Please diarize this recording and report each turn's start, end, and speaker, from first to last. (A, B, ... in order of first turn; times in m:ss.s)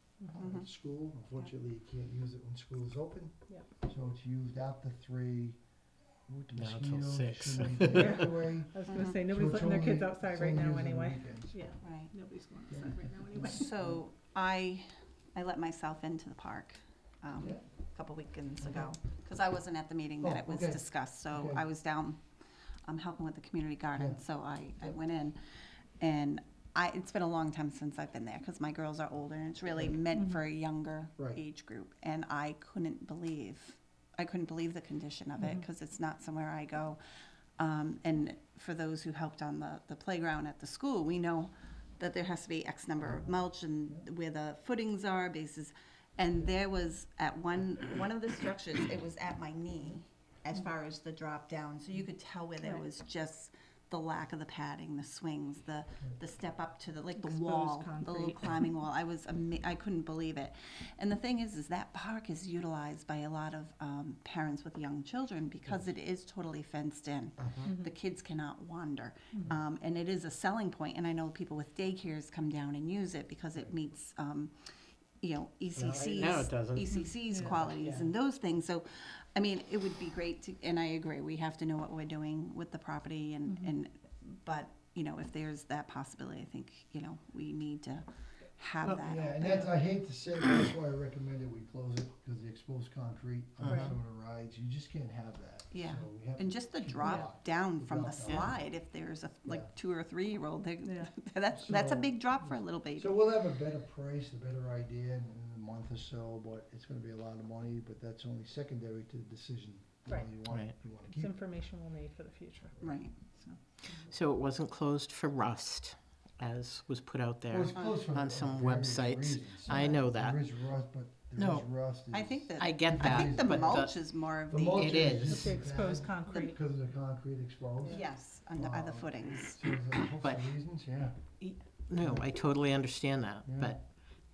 0:00.2-0:00.5 A
0:00.3-0:03.3 B
0:00.4-0:00.7 C
0:03.8-0:05.6 B
0:06.3-0:11.6 B
0:06.5-0:08.2 D
0:07.9-0:13.7 A
0:08.9-0:09.2 C
0:11.8-0:12.1 C
0:12.7-0:14.0 B
0:13.4-0:22.2 C
0:17.4-0:17.6 B
0:18.6-0:18.9 B
0:20.2-0:21.6 B
0:22.8-0:25.4 C
0:23.9-0:24.2 B
0:26.0-0:37.0 C
0:30.1-0:30.4 A
0:35.4-0:35.6 A
0:37.6-1:14.5 C
0:43.0-0:43.3 B
0:57.2-0:58.7 A
1:07.6-1:07.9 A
1:15.2-1:29.8 C
1:15.7-1:18.1 D
1:16.9-1:17.6 A
1:23.4-1:23.7 A
1:28.9-1:38.6 B
1:33.6-1:33.9 D
1:33.7-1:33.9 A
1:35.7-1:43.2 C
1:37.0-1:37.3 A
1:39.4-1:39.7 B
1:40.8-1:41.1 A
1:41.5-1:51.4 B
1:51.1-1:54.1 A
1:52.8-1:53.1 C
1:54.1-2:00.4 D
1:57.5-2:11.2 B
1:57.7-1:58.0 C
1:59.7-2:00.0 A
2:01.4-2:01.7 D
2:02.1-2:05.0 C
2:02.6-2:04.0 D
2:04.6-2:05.6 D
2:05.2-2:06.6 A
2:07.8-2:08.1 A
2:07.9-2:09.8 C
2:10.2-2:10.5 D
2:11.4-2:13.9 D
2:12.0-2:12.3 B
2:13.4-2:13.8 B